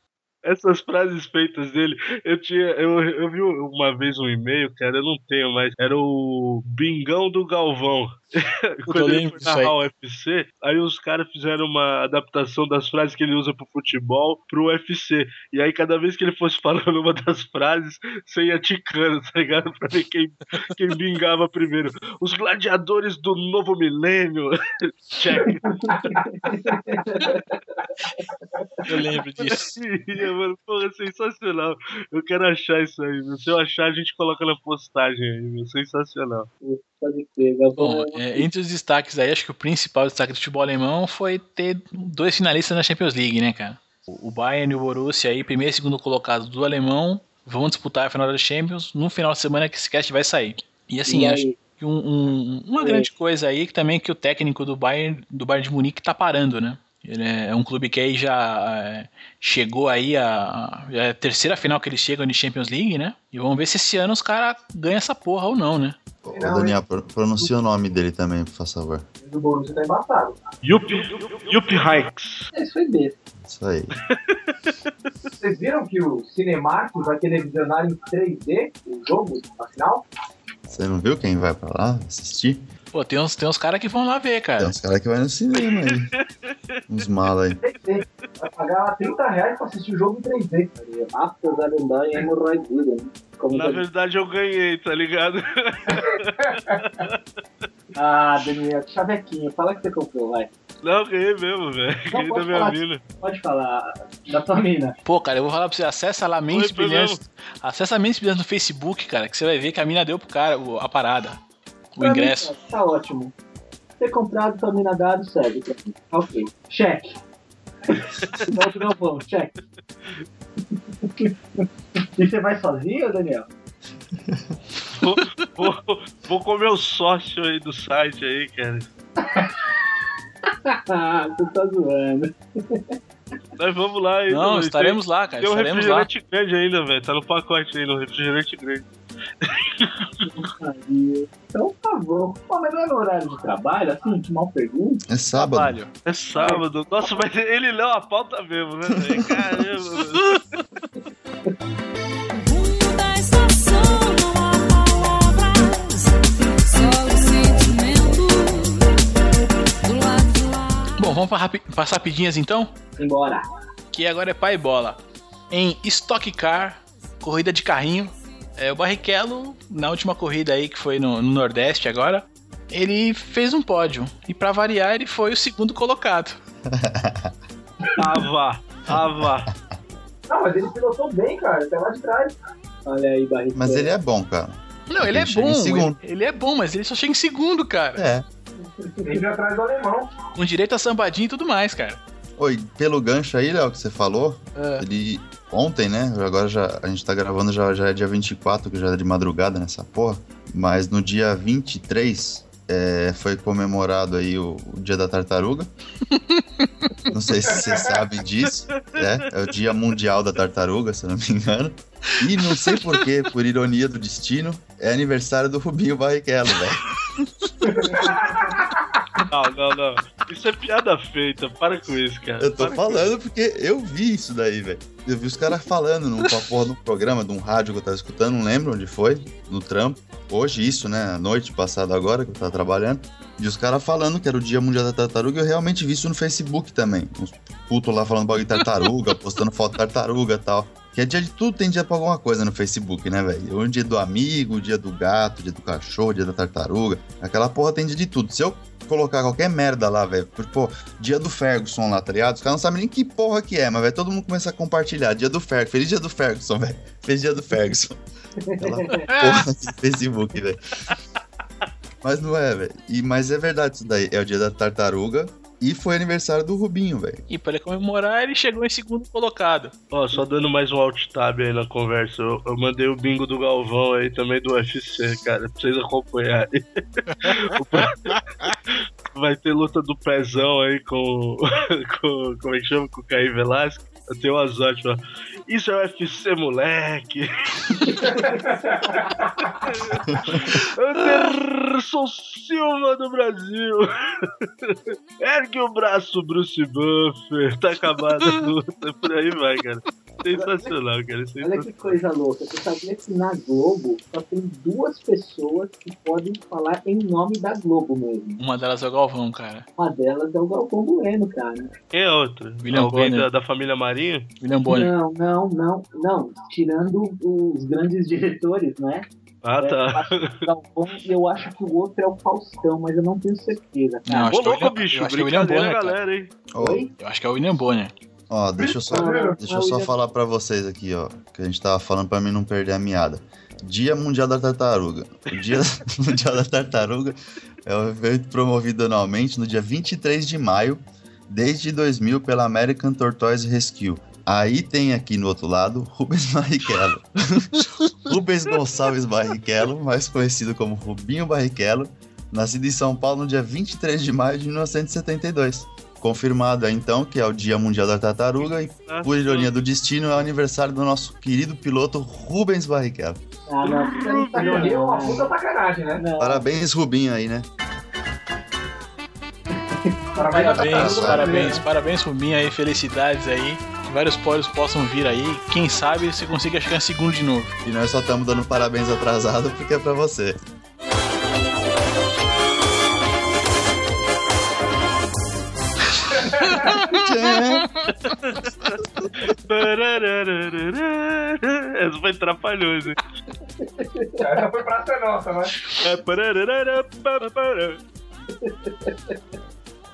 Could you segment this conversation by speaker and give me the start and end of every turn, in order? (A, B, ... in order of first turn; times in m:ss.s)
0:00.4-0:25.7 A
0:08.9-0:09.7 B
0:25.9-0:27.4 C
0:25.9-0:27.4 D
0:28.8-0:29.8 B
0:29.4-0:36.5 A
0:36.6-0:38.4 C
0:37.8-1:06.0 B
0:51.1-0:51.6 C
0:52.8-0:53.1 C
1:06.2-1:09.0 E
1:06.3-1:06.8 D
1:09.2-1:10.4 D
1:10.6-1:12.5 A
1:12.5-1:13.2 C
1:13.4-1:14.0 E
1:14.1-1:14.7 A
1:15.4-1:20.0 D
1:20.7-1:22.6 E
1:22.9-1:24.7 B
1:24.6-1:26.1 E
1:25.6-1:26.8 A
1:26.9-1:27.6 E
1:27.6-1:30.7 D
1:30.8-1:33.8 C
1:33.5-1:37.2 A
1:35.9-1:36.8 D
1:37.9-1:40.5 C
1:40.8-1:43.0 A
1:42.1-1:45.0 C
1:45.0-1:51.4 B
1:46.5-1:47.2 A
1:51.9-1:52.5 B
1:52.0-1:53.3 C
1:54.0-1:57.1 C
1:57.9-1:59.5 C
1:58.2-1:58.5 A
2:00.8-2:03.5 C
2:04.9-2:08.9 A
2:09.2-2:09.6 C
2:10.5-2:13.0 C
2:13.6-2:18.9 A
2:14.3-2:16.1 B
2:19.4-2:20.3 A
2:20.2-2:25.0 C
2:25.1-2:25.8 E
2:25.3-2:25.9 B
2:26.0-2:30.4 A
2:32.3-2:39.0 F
2:39.8-2:40.9 F
2:41.0-2:42.7 B
2:43.0-2:43.4 C
2:43.9-2:45.0 B
2:45.5-2:56.4 B
2:56.7-2:57.3 E
2:57.9-2:59.5 A
2:58.9-2:59.5 E
3:00.3-3:02.3 D
3:02.8-3:03.9 C
3:03.5-3:06.0 E
3:04.9-3:08.0 B
3:08.0-3:08.3 E
3:08.8-3:09.2 C
3:09.0-3:10.1 D
3:10.4-3:12.0 B
3:12.4-3:25.7 E
3:14.6-3:14.8 B
3:26.1-3:26.9 B
3:27.1-3:36.9 E
3:27.5-3:27.9 D
3:28.8-3:29.2 A
3:32.4-3:33.0 B
3:37.2-3:37.9 B
3:37.6-3:39.2 D
3:39.3-3:43.1 A
3:42.4-4:18.0 E
3:58.5-3:58.9 B
4:18.4-4:19.1 C
4:18.6-4:20.6 E
4:19.1-4:19.4 B
4:22.0-4:27.2 E
4:27.3-4:29.7 B
4:29.9-4:38.1 A
4:37.2-4:38.5 B
4:38.7-4:48.3 A
4:48.0-4:49.5 D
4:49.4-5:02.0 A
4:50.1-4:50.4 E
5:01.4-5:08.4 C
5:08.4-5:09.7 B
5:09.8-5:11.7 C
5:11.9-5:14.3 A
5:12.6-5:13.3 B
5:14.4-5:14.9 B
5:14.7-5:19.1 C
5:19.4-5:20.4 A
5:19.6-5:24.3 C
5:24.1-5:26.0 B
5:24.3-5:26.3 A
5:26.5-5:26.8 E
5:26.6-5:26.9 C
5:27.0-5:27.9 B
5:28.3-6:03.2 E
5:28.6-5:29.4 D
5:28.9-5:29.9 C
5:58.4-5:59.5 A
6:03.5-6:05.3 C
6:03.6-6:04.8 A
6:04.2-6:06.0 D
6:06.0-6:06.4 C
6:06.2-6:07.5 E
6:09.6-6:11.5 C
6:10.1-6:11.6 D
6:10.5-6:17.6 B
6:10.7-6:11.4 E
6:17.6-6:20.4 E
6:26.1-6:28.2 B
6:26.1-6:26.7 D
6:26.9-6:27.7 E
6:29.2-6:33.0 A
6:33.6-6:34.4 C
6:34.2-6:35.7 D
6:35.8-6:37.8 A
6:38.4-6:39.2 C